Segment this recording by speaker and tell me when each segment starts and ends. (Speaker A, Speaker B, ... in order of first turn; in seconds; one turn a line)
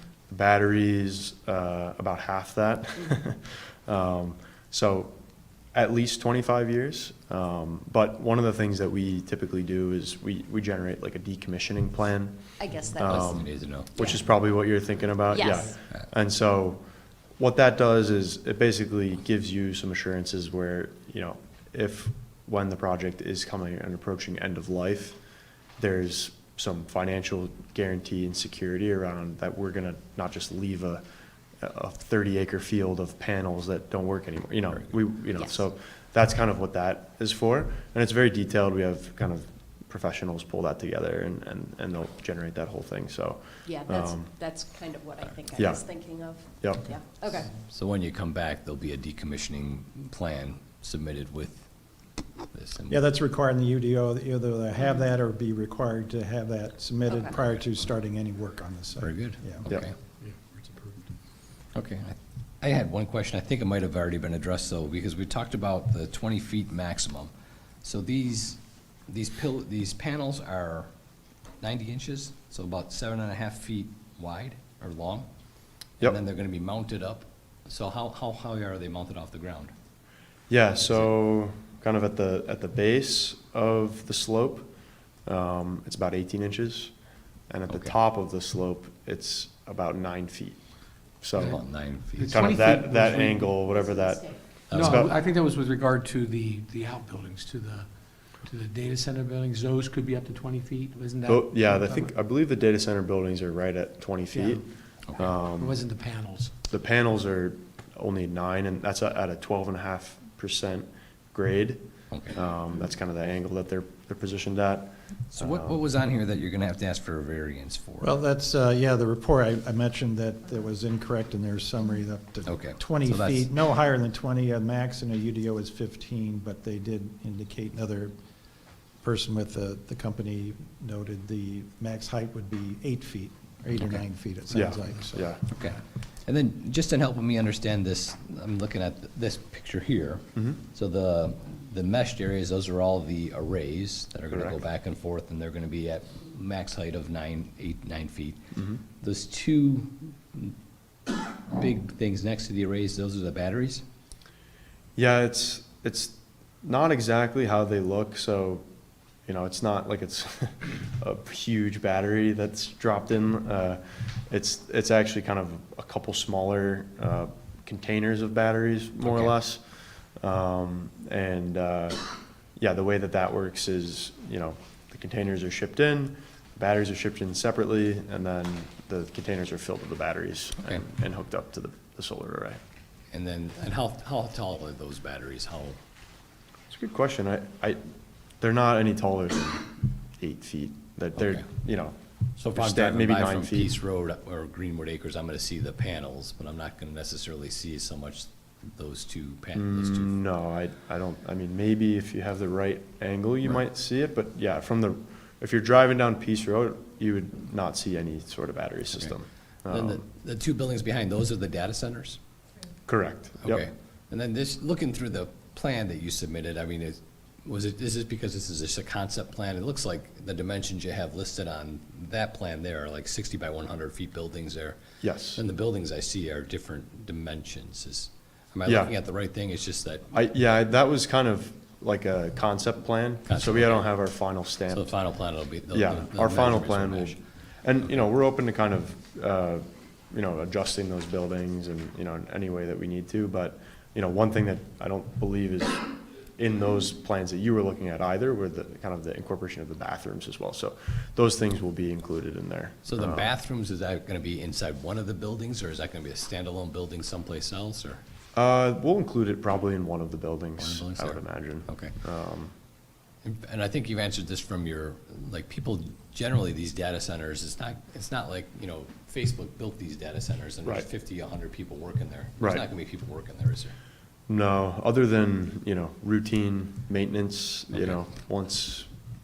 Speaker A: 0.3-5.1
Speaker A: 5.7-12.4
Speaker B: 12.6-13.3
Speaker A: 12.9-16.8
Speaker C: 13.1-13.9
Speaker B: 15.3-15.7
Speaker A: 17.4-25.2
Speaker A: 25.8-31.0
Speaker A: 31.6-44.3
Speaker B: 43.6-47.5
Speaker A: 45.5-45.8
Speaker A: 46.6-46.9
Speaker C: 47.7-51.6
Speaker C: 52.5-53.0
Speaker D: 52.9-59.7
Speaker B: 57.1-57.3
Speaker C: 59.0-59.9
Speaker E: 60.2-61.0
Speaker C: 61.7-67.3
Speaker C: 67.8-70.9
Speaker C: 71.6-75.3
Speaker C: 76.0-79.7
Speaker A: 80.5-84.7
Speaker A: 85.2-86.9
Speaker A: 87.5-90.6
Speaker C: 87.7-87.9
Speaker A: 91.2-91.6
Speaker C: 91.3-92.5
Speaker E: 92.1-93.6
Speaker A: 92.2-95.1
Speaker B: 93.6-94.4
Speaker C: 94.7-95.1
Speaker E: 94.7-102.1
Speaker A: 101.3-104.6
Speaker E: 104.3-104.6
Speaker C: 105.1-105.3
Speaker A: 105.2-105.8
Speaker E: 105.4-106.6
Speaker A: 106.7-115.8
Speaker C: 112.1-112.4
Speaker C: 115.3-118.2
Speaker D: 118.0-128.1
Speaker C: 122.4-123.5
Speaker D: 129.0-135.3
Speaker A: 134.5-135.4
Speaker C: 135.5-148.4
Speaker A: 144.3-144.6
Speaker A: 148.5-148.8
Speaker C: 149.0-150.5
Speaker C: 151.5-153.8
Speaker A: 154.9-158.6
Speaker A: 159.2-169.6
Speaker C: 169.0-169.3
Speaker A: 170.2-182.6
Speaker C: 183.1-185.8
Speaker A: 186.7-187.8
Speaker A: 188.4-191.9
Speaker C: 191.2-191.4
Speaker C: 192.4-200.1
Speaker A: 192.5-193.8
Speaker A: 199.5-210.0
Speaker C: 209.7-212.2
Speaker A: 212.9-213.7
Speaker C: 213.4-224.8
Speaker A: 225.0-225.4
Speaker C: 225.3-230.0
Speaker A: 228.7-228.9
Speaker A: 230.1-234.9
Speaker C: 233.3-233.9
Speaker C: 234.7-237.2
Speaker A: 235.7-253.3
Speaker C: 252.8-258.0
Speaker A: 258.3-262.5
Speaker C: 260.6-261.9
Speaker C: 263.2-273.8
Speaker A: 272.4-272.6
Speaker A: 274.3-278.9
Speaker C: 277.7-278.0